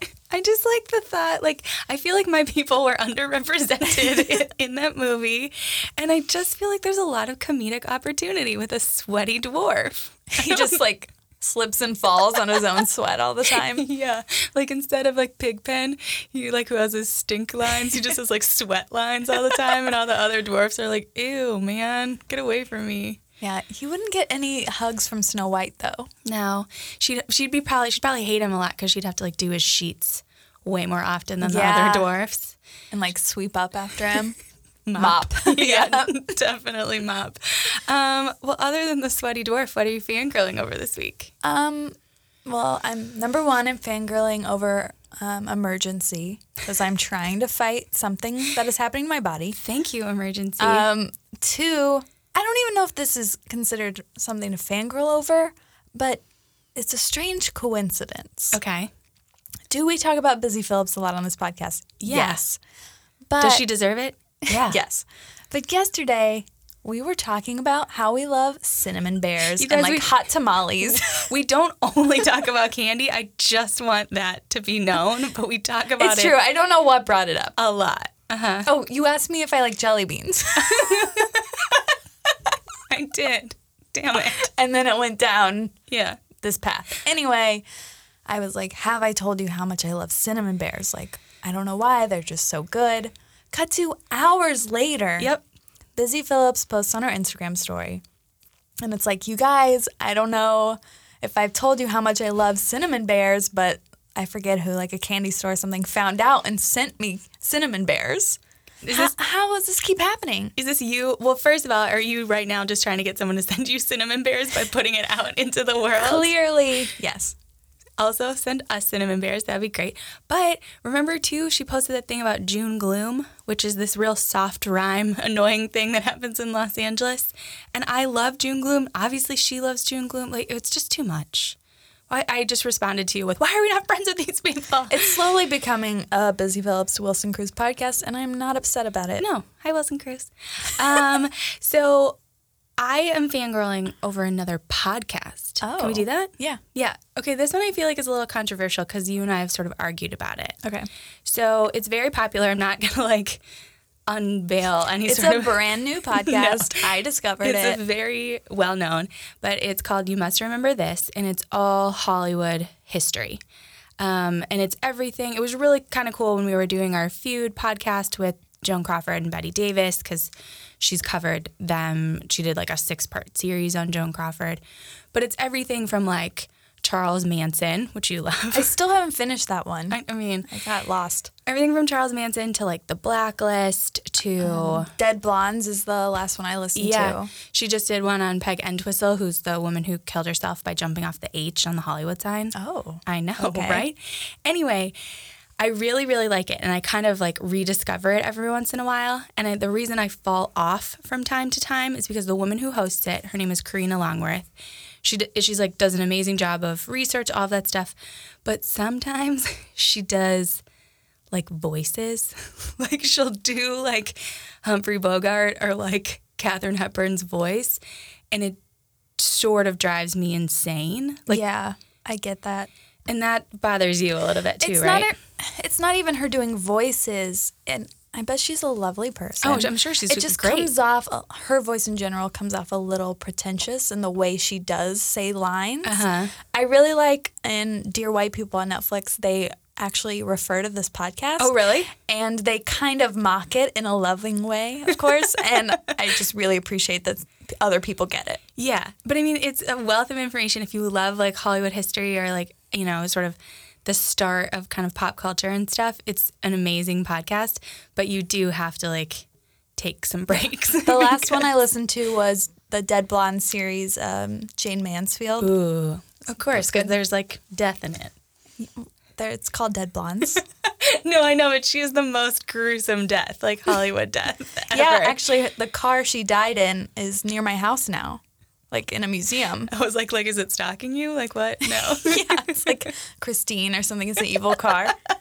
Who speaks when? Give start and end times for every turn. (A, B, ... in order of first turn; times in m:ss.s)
0:00.3-0:10.8 A
0:10.3-0:13.8 B
0:13.6-0:23.2 A
0:23.4-0:26.1 B
0:26.2-0:32.6 A
0:31.4-0:32.1 B
0:32.9-0:34.4 B
0:34.9-0:41.3 A
0:35.0-0:36.1 B
0:41.4-0:41.9 B
0:42.4-0:49.6 B
0:49.6-0:50.8 A
0:50.6-0:56.2 B
0:56.7-0:58.6 B
0:58.5-0:58.9 A
0:59.7-1:02.6 B
1:02.0-1:02.4 A
1:03.3-1:03.6 B
1:03.4-1:04.8 A
1:04.4-1:11.3 B
1:09.6-1:10.2 A
1:10.8-1:16.4 A
1:16.0-1:17.6 B
1:17.6-1:18.7 A
1:18.6-1:21.3 B
1:20.6-1:21.8 A
1:22.9-1:24.5 A
1:24.2-1:25.7 B
1:25.9-1:26.2 A
1:26.3-1:27.6 B
1:28.2-1:35.3 B
1:36.0-1:38.0 B
1:38.8-1:48.4 B
1:48.8-1:49.1 A
1:48.9-1:50.5 B
1:50.6-1:56.3 A
1:56.0-1:57.3 B
1:58.0-2:11.6 A
2:12.1-2:15.2 A
2:14.9-2:19.2 B
2:19.2-2:22.2 A
2:22.8-2:30.6 A
2:25.6-2:26.6 B
2:30.6-2:30.9 B
2:31.2-2:33.4 A
2:34.1-2:36.8 A
2:35.0-2:37.8 B
2:37.4-2:43.4 A
2:44.0-2:54.6 A
2:55.1-2:58.7 A
2:58.5-3:01.3 B
2:59.9-3:00.5 A
3:01.4-3:04.9 A
3:04.4-3:07.3 B
3:06.7-3:12.5 A
3:12.5-3:13.8 B
3:13.0-3:14.9 A
3:15.6-3:24.5 A
3:25.0-3:30.6 A
3:31.3-3:38.6 A
3:39.2-3:41.4 A
3:41.3-3:42.7 B
3:43.0-3:45.1 A
3:44.6-4:08.4 B
3:49.4-3:50.7 A
3:55.8-3:56.3 A
4:01.4-4:01.9 A
4:08.6-4:19.2 A
4:19.8-4:21.5 A
4:20.8-4:25.5 B
4:25.4-4:28.1 A
4:26.5-4:26.9 B
4:28.6-4:30.4 B
4:30.3-4:35.2 A
4:34.7-4:39.7 B
4:39.7-4:42.8 A
4:41.7-4:45.0 B